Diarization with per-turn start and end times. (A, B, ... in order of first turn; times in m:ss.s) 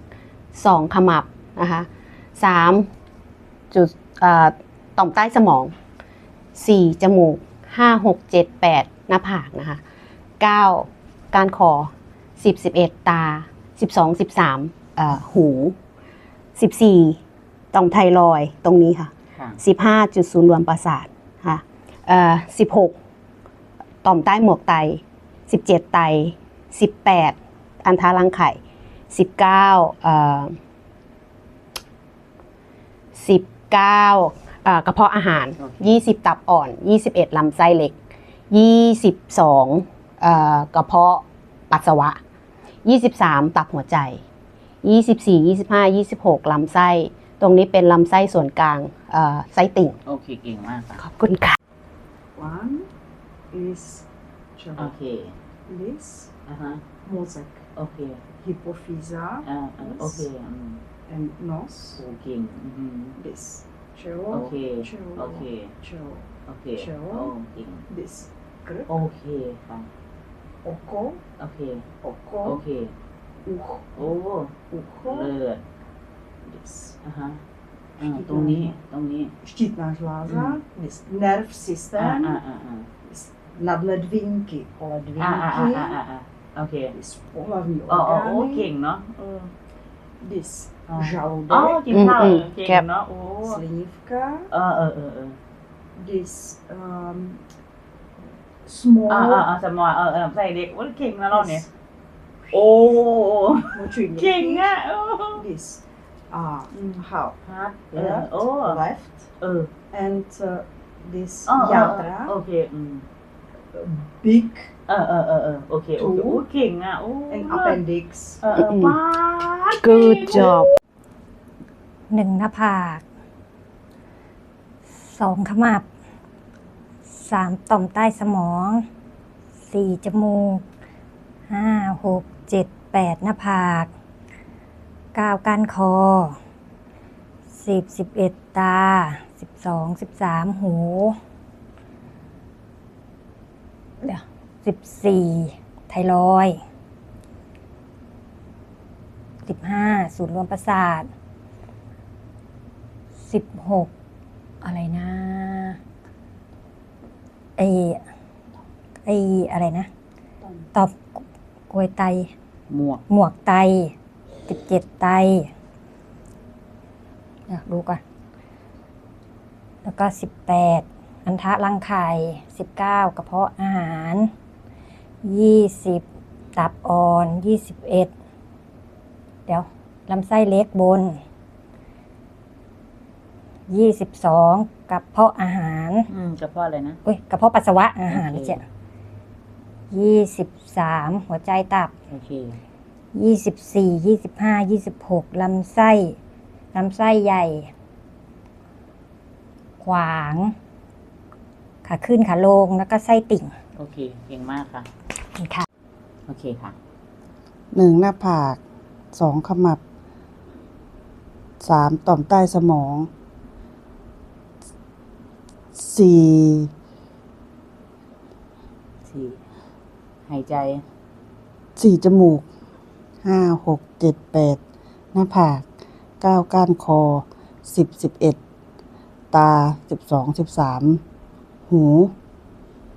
0:00.5-0:02.9 A
0:03.7-0:05.8 A
0:06.6-0:09.8 A
0:10.4-0:15.8 A
0:16.6-0:17.2 A
0:17.7-0:23.0 A
0:24.0-0:30.6 A
0:33.2-0:38.0 A
0:35.6-0:35.9 B
0:38.5-0:42.2 A
0:42.8-0:44.2 A
0:44.8-0:50.0 A
0:50.1-0:51.0 B
0:52.4-0:52.9 C
0:53.5-0:54.0 C
0:54.6-0:55.0 C
0:54.8-0:55.4 B
0:55.7-0:56.3 C
0:56.5-0:56.8 B
0:57.0-0:57.6 C
0:57.8-0:58.2 B
0:58.4-1:00.3 C
0:59.4-1:00.8 B
1:01.1-1:02.0 C
1:02.0-1:03.2 B
1:03.2-1:07.3 C
1:04.3-1:05.7 B
1:06.5-1:07.8 B
1:07.9-1:09.0 C
1:08.9-1:09.9 B
1:10.6-1:11.2 C
1:11.4-1:11.8 B
1:12.0-1:12.6 C
1:12.4-1:12.9 B
1:13.4-1:14.1 C
1:14.0-1:15.6 B
1:14.7-1:15.4 C
1:16.4-1:17.0 C
1:17.0-1:17.4 B
1:18.0-1:19.3 B
1:18.0-1:18.8 C
1:19.4-1:22.4 C
1:20.3-1:20.6 B
1:22.0-1:22.9 B
1:23.0-1:26.0 C
1:25.2-1:26.9 B
1:26.9-1:28.7 C
1:27.9-1:29.5 B
1:30.2-1:31.8 C
1:30.9-1:33.6 B
1:31.9-1:32.8 A
1:33.4-1:34.5 C
1:34.5-1:35.4 B
1:36.0-1:37.4 C
1:38.6-1:39.5 C
1:39.1-1:41.6 B
1:41.3-1:41.7 C
1:42.5-1:45.4 B
1:42.5-1:42.8 C
1:43.7-1:44.8 C
1:45.3-1:47.4 C
1:47.4-1:48.8 B
1:47.9-1:49.3 C
1:49.4-1:49.7 B
1:49.9-1:52.4 C
1:51.5-1:53.0 B
1:53.8-1:54.7 C
1:54.9-1:57.8 B
1:56.0-1:56.4 C
1:57.3-1:58.5 C
1:58.4-2:00.6 B
1:58.6-1:59.0 A
2:02.1-2:03.0 D
2:05.0-2:05.8 D
2:07.1-2:08.9 D
2:09.7-2:10.6 D
2:11.5-2:13.9 D
2:15.2-2:16.4 D
2:17.6-2:21.2 D
2:24.0-2:26.6 D
2:29.5-2:31.1 D
2:33.3-2:33.9 D
2:34.6-2:35.8 D
2:37.6-2:38.0 D
2:39.1-2:39.9 D
2:41.7-2:42.3 D
2:42.7-2:43.0 B
2:43.1-2:43.9 D
2:44.5-2:45.5 D
2:47.5-2:48.0 D
2:49.8-2:54.3 D
2:55.2-2:56.0 D
2:56.6-2:58.1 D
2:59.5-3:01.2 D
3:03.7-3:06.1 D
3:06.1-3:07.0 B
3:07.0-3:08.6 D
3:08.1-3:08.6 B
3:09.9-3:11.9 D
3:12.1-3:12.6 B
3:13.1-3:16.2 D
3:16.7-3:17.7 D
3:19.8-3:20.5 D
3:21.8-3:23.5 D
3:23.8-3:24.9 B
3:25.4-3:25.7 D
3:26.3-3:26.8 B
3:27.7-3:28.6 E
3:29.1-3:29.8 E
3:31.6-3:33.1 E
3:35.8-3:36.7 E
3:39.1-3:39.4 B
3:40.3-3:40.8 B
3:41.8-3:42.5 E
3:43.2-3:44.6 E
3:45.1-3:45.6 E
3:46.2-3:48.4 E
3:49.3-3:51.0 E
3:51.7-3:52.1 E